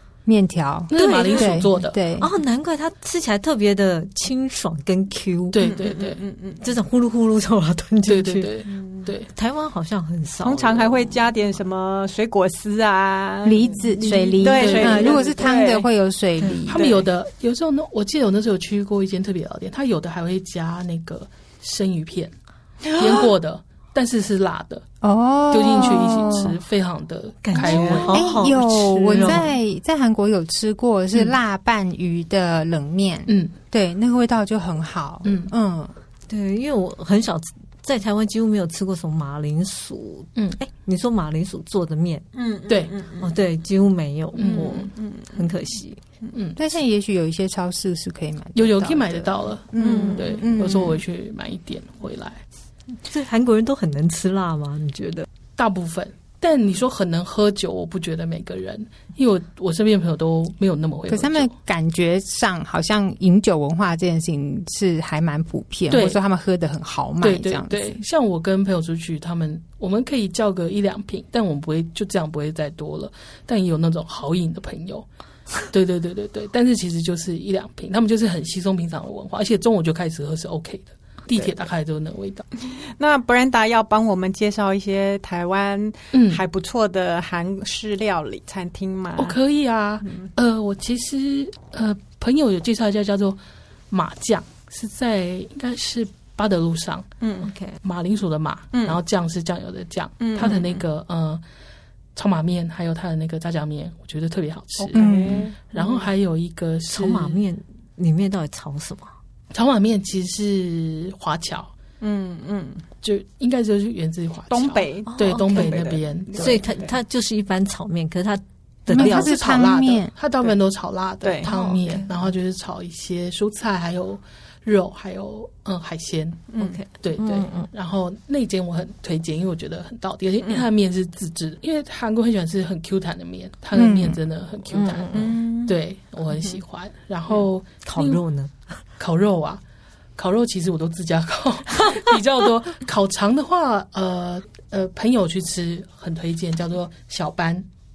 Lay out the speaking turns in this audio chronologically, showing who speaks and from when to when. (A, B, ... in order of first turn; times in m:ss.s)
0:00.2-0:02.3 A
0:00.9-0:02.0 B
0:01.0-0:01.6 C
0:02.2-0:05.7 C
0:05.5-0:06.2 B
0:05.6-0:06.6 D
0:06.6-0:08.5 C
0:08.1-0:09.3 B
0:08.7-0:09.0 D
0:09.3-0:11.3 C
0:10.4-0:13.8 D
0:13.4-0:16.9 A
0:14.0-0:15.0 C
0:14.4-0:15.9 D
0:14.7-0:15.1 B
0:16.6-0:22.3 B
0:16.7-0:17.0 D
0:22.9-0:23.3 D
0:22.9-0:24.8 B
0:25.0-0:26.6 A
0:25.5-0:28.3 B
0:27.4-0:29.5 C
0:27.6-0:28.1 D
0:27.9-0:35.9 A
0:33.3-0:33.5 B
0:35.2-0:35.5 B
0:36.3-0:42.3 C
0:42.3-0:43.3 D
0:42.7-0:42.9 B
0:43.2-0:46.0 C
0:44.4-0:44.9 B
0:44.4-0:45.4 D
0:46.3-0:46.6 B
0:46.6-0:51.0 A
0:48.5-0:52.4 B
0:49.8-0:50.4 C
0:53.1-0:55.3 C
0:55.6-1:01.5 B
1:01.1-1:08.0 A
1:05.9-1:06.2 B
1:07.2-1:15.1 B
1:15.7-1:22.4 B
1:22.6-1:29.3 D
1:26.1-1:26.4 B
1:29.2-1:33.4 B
1:33.9-1:37.1 B
1:37.2-1:37.5 D
1:37.4-1:37.8 C
1:37.8-1:41.4 B
1:38.7-1:39.0 D
1:40.2-1:40.6 D
1:40.4-1:40.7 C
1:42.1-1:45.0 B
1:44.8-1:46.1 D
1:45.0-1:45.5 A
1:45.7-1:47.4 B
1:46.9-1:49.1 C
1:49.5-1:51.7 B
1:52.0-1:52.8 D
1:53.0-1:56.6 B
1:54.5-1:56.9 D
1:55.1-1:55.7 C
1:56.4-1:59.3 C
1:58.9-2:06.5 B
1:58.9-2:00.1 A
2:01.2-2:01.5 D
2:01.5-2:02.0 C
2:06.5-2:06.8 D
2:06.6-2:07.7 C
2:07.0-2:18.2 B
2:13.7-2:14.2 A
2:14.7-2:15.4 C
2:15.1-2:15.7 D
2:17.8-2:18.5 C
2:19.0-2:19.6 B
2:20.2-2:27.6 B